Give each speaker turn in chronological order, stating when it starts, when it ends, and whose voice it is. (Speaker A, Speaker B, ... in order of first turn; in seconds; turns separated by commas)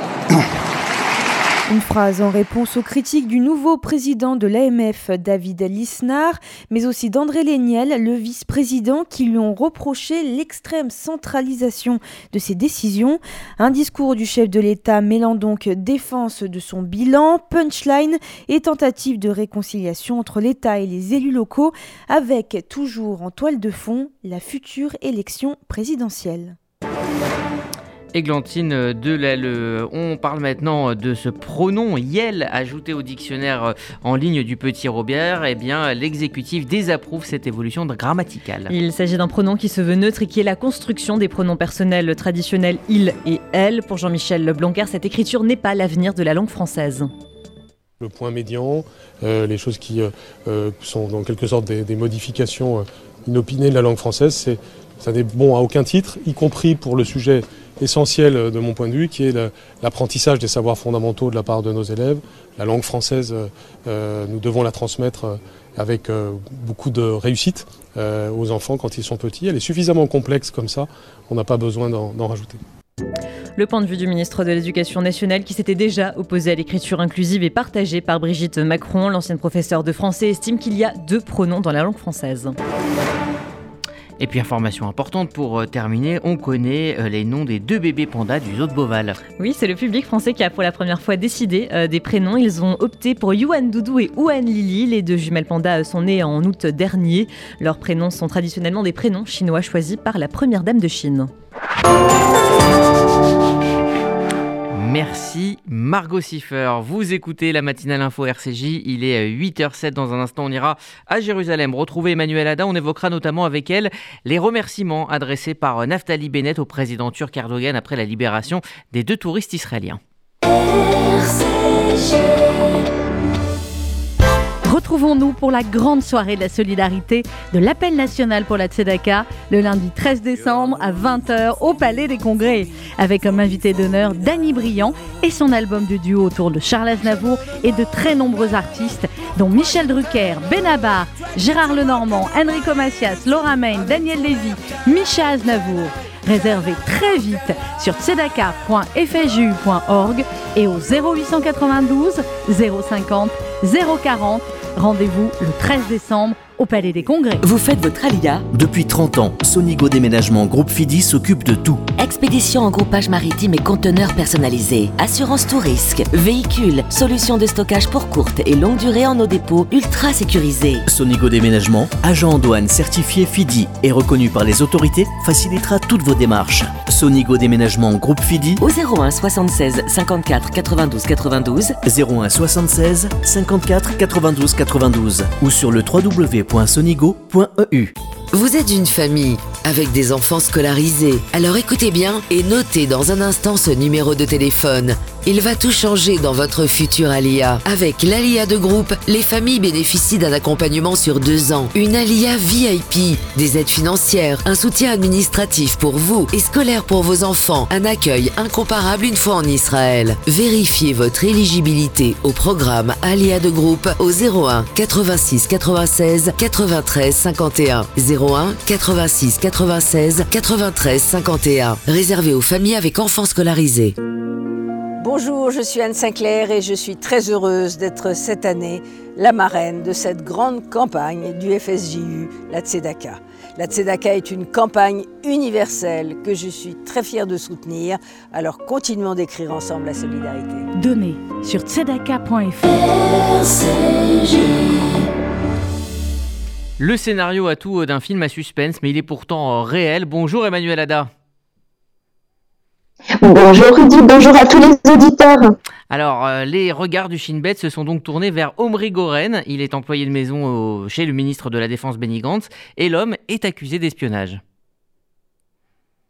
Speaker A: 1.7-26.6, Speaker B: 28.1-38.7, Speaker C: 38.7-47.1, Speaker D: 48.0-72.6, Speaker C: 73.5-82.5, Speaker B: 84.2-89.2, Speaker C: 89.4-101.3, Speaker B: 104.7-120.0, Speaker E: 124.6-157.4, Speaker F: 157.4-158.5, Speaker G: 158.5-161.8, Speaker F: 162.0-170.8, Speaker G: 170.9-178.6, Speaker F: 178.6-181.8, Speaker G: 181.8-187.9, Speaker H: 188.3-223.9, Speaker I: 225.0-240.7, Speaker E: 240.7-242.9, Speaker B: 246.8-251.1, Speaker J: 253.2-255.5, Speaker B: 255.9-264.4